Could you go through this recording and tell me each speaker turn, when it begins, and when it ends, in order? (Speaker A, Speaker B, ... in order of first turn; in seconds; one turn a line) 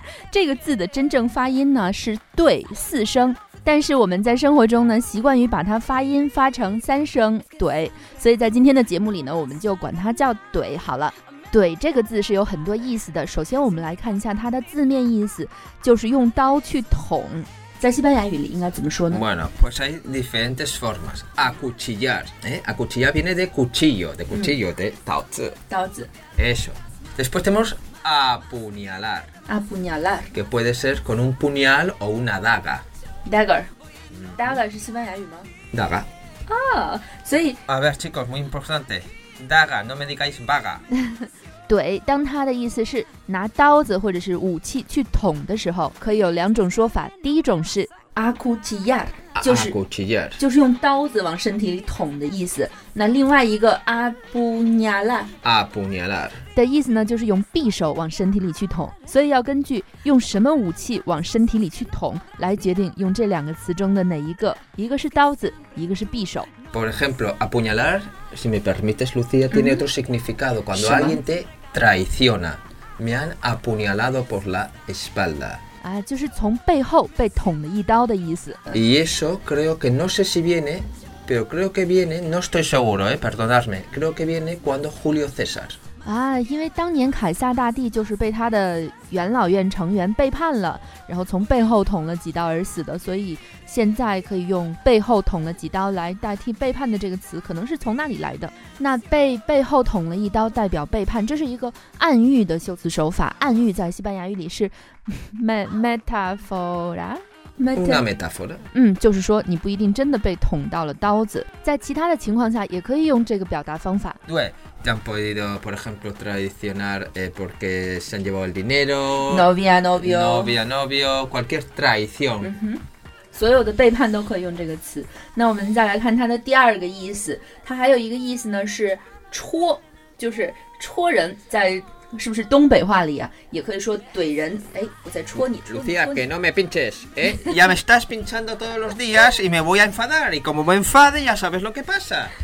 Speaker A: 0.3-19.2
Speaker B: 19.1-25.6
Speaker A: 25.7-26.1
Speaker B: 26.4-29.3
Speaker A: 29.5-30.3
Speaker B: 30.3-32.8
Speaker A: 33.2-33.7
Speaker B: 34.1-34.5
Speaker A: 34.4-35.5
Speaker B: 35.7-36.1
Speaker A: 36.5-37.6
Speaker B: 37.7-40.8
Speaker A: 41.7-49.8
Speaker B: 49.3-50.4
Speaker A: 50.4-55.3
Speaker B: 55.4-56.4
Speaker A: 56.5-66.5
Speaker B: 66.7-75.6
Speaker A: 69.5-69.8
Speaker A: 70.7-71.2
Speaker A: 75.8-78.8
Speaker B: 78.7-85.8
Speaker A: 86.0-108.0
Speaker B: 107.8-108.6
Speaker A: 108.7-114.2
Speaker B: 114.2-122.5
Speaker A: 119.3-120.5
Speaker A: 122.4-136.2
Speaker B: 135.3-142.3
Speaker A: 137.3-137.6